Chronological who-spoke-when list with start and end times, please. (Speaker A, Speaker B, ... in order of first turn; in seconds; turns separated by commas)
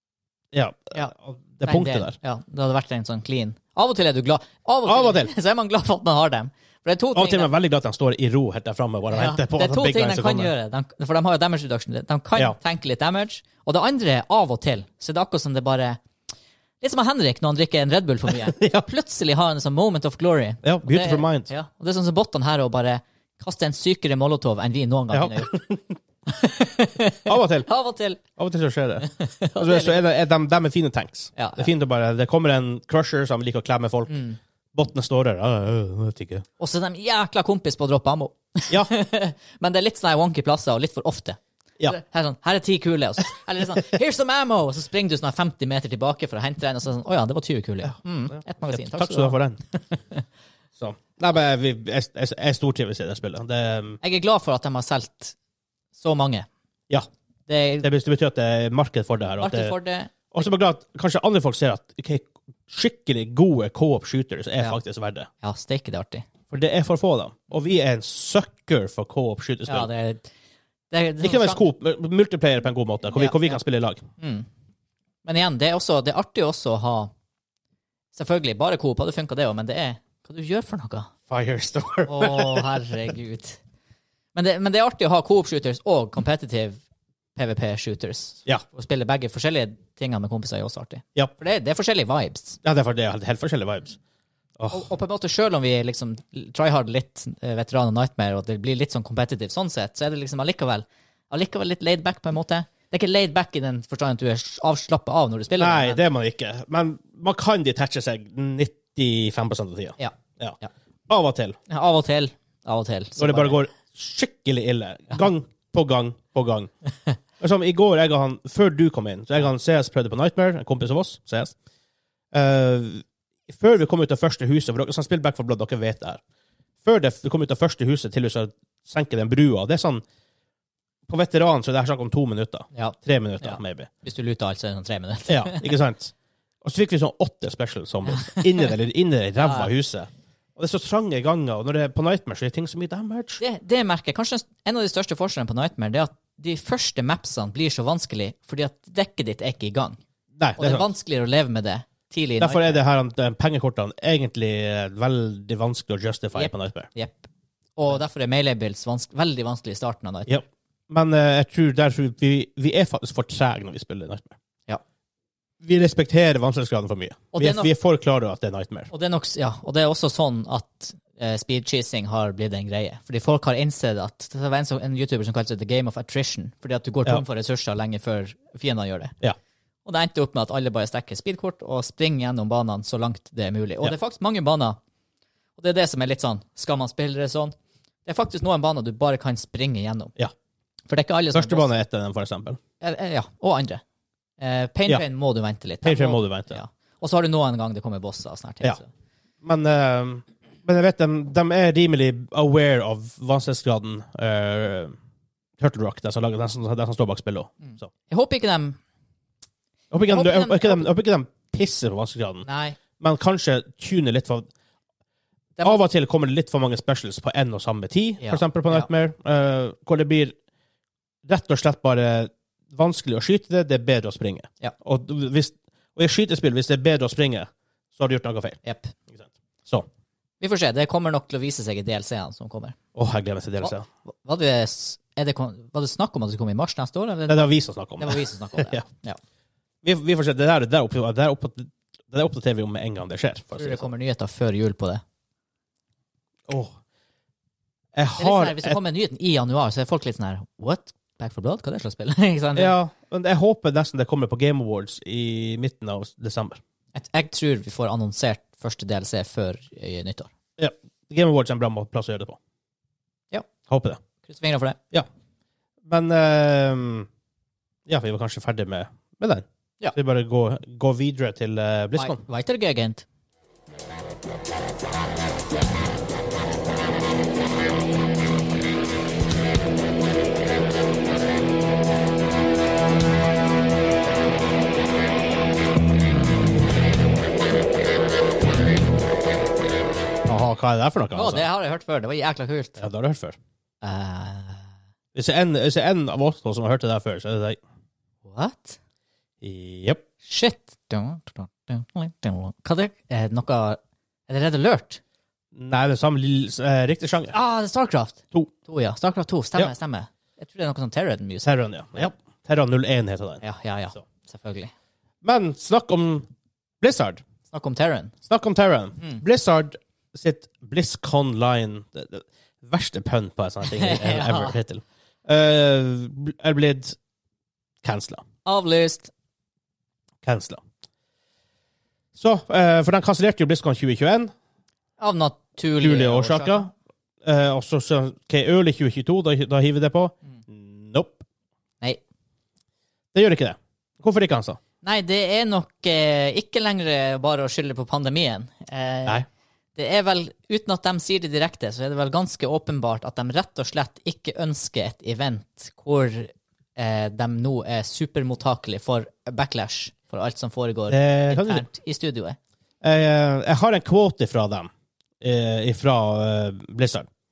Speaker A: 0.5-2.1, Speaker B: 1.6-7.5, Speaker A: 4.9-5.3, Speaker A: 7.2-10.5, Speaker B: 9.1-16.0, Speaker B: 16.8-25.6, Speaker A: 18.5-18.8, Speaker A: 20.6-21.5, Speaker A: 25.1-25.9, Speaker B: 26.3-28.2, Speaker A: 27.3-27.7, Speaker A: 28.4-34.2, Speaker B: 29.0-30.0, Speaker B: 31.4-31.7, Speaker B: 34.1-34.4, Speaker A: 34.7-36.5, Speaker B: 36.6-50.2, Speaker A: 48.7-49.6, Speaker A: 50.8-54.0, Speaker B: 54.0-55.4, Speaker B: 56.0-56.5, Speaker B: 57.5-57.9, Speaker A: 57.8-59.7, Speaker B: 59.4-60.3, Speaker A: 60.3-65.3, Speaker B: 65.4-66.3, Speaker A: 66.5-69.9, Speaker B: 69.7-70.3, Speaker B: 70.9-71.7, Speaker A: 71.2-74.0, Speaker B: 73.2-73.6, Speaker B: 74.2-74.5, Speaker B: 75.2-77.1, Speaker B: 78.1-81.1, Speaker A: 81.3-82.7, Speaker B: 82.1-83.6, Speaker B: 84.3-86.8, Speaker B: 87.4-92.6, Speaker A: 92.6-94.0, Speaker A: 94.6-94.9, Speaker B: 94.7-106.0, Speaker A: 105.6-110.6, Speaker B: 110.0-110.7, Speaker A: 111.1-111.6, Speaker B: 111.7-113.6, Speaker A: 113.2-116.7, Speaker A: 117.4-121.5, Speaker A: 122.3-126.2, Speaker A: 126.8-130.0, Speaker A: 131.1-133.9, Speaker B: 132.7-135.7, Speaker A: 135.3-143.4, Speaker B: 138.1-138.7, Speaker B: 139.4-139.7, Speaker B: 143.4-150.0, Speaker A: 150.4-150.9, Speaker B: 150.6-152.8, Speaker A: 152.4-156.9, Speaker B: 156.3-160.4, Speaker A: 160.3-164.4, Speaker A: 165.6-168.9, Speaker B: 167.3-167.7, Speaker B: 168.9-179.2, Speaker B: 179.8-184.8, Speaker B: 185.6-187.6, Speaker B: 188.1-190.2, Speaker B: 190.9-191.7, Speaker A: 191.3-192.6, Speaker B: 192.8-193.8, Speaker B: 194.4-198.9, Speaker A: 195.8-196.6, Speaker A: 199.4-204.9, Speaker A: 205.6-207.9, Speaker B: 207.6-208.8, Speaker A: 209.9-212.5, Speaker B: 210.1-210.9, Speaker B: 212.4-212.8, Speaker A: 213.0-214.5, Speaker A: 215.6-220.3, Speaker B: 218.2-218.9, Speaker A: 221.3-229.9, Speaker B: 228.6-228.9, Speaker B: 230.4-232.8, Speaker A: 232.9-233.9, Speaker B: 233.6-239.2, Speaker A: 237.3-238.8, Speaker A: 239.8-243.9, Speaker B: 243.6-245.0, Speaker A: 246.5-246.8, Speaker A: 247.9-248.8, Speaker B: 248.2-252.8, Speaker A: 252.6-256.6, Speaker B: 256.9-260.3, Speaker A: 260.6-262.4, Speaker A: 263.7-264.0, Speaker B: 264.2-264.8, Speaker A: 265.9-267.1, Speaker A: 267.9-272.2, Speaker B: 272.0-273.1, Speaker A: 290.3-291.5, Speaker B: 291.1-292.8, Speaker A: 292.8-293.4, Speaker B: 293.8-294.6, Speaker A: 295.1-297.6, Speaker B: 298.2-298.8, Speaker A: 299.4-300.0, Speaker B: 300.2-305.0, Speaker A: 305.5-307.3, Speaker B: 307.3-311.5, Speaker A: 311.4-313.4, Speaker B: 313.4-314.7, Speaker A: 315.2-316.3, Speaker A: 316.8-317.2, Speaker B: 317.5-318.1, Speaker A: 318.3-327.0, Speaker B: 323.6-324.6, Speaker A: 327.8-328.2, Speaker B: 328.4-329.1, Speaker A: 330.2-330.6, Speaker A: 332.2-334.3, Speaker B: 335.0-336.7, Speaker A: 335.8-336.7, Speaker A: 337.2-341.2, Speaker A: 343.1-344.6, Speaker B: 344.8-349.2, Speaker B: 349.8-362.4, Speaker A: 360.9-361.7, Speaker A: 362.8-364.7, Speaker A: 365.2-367.1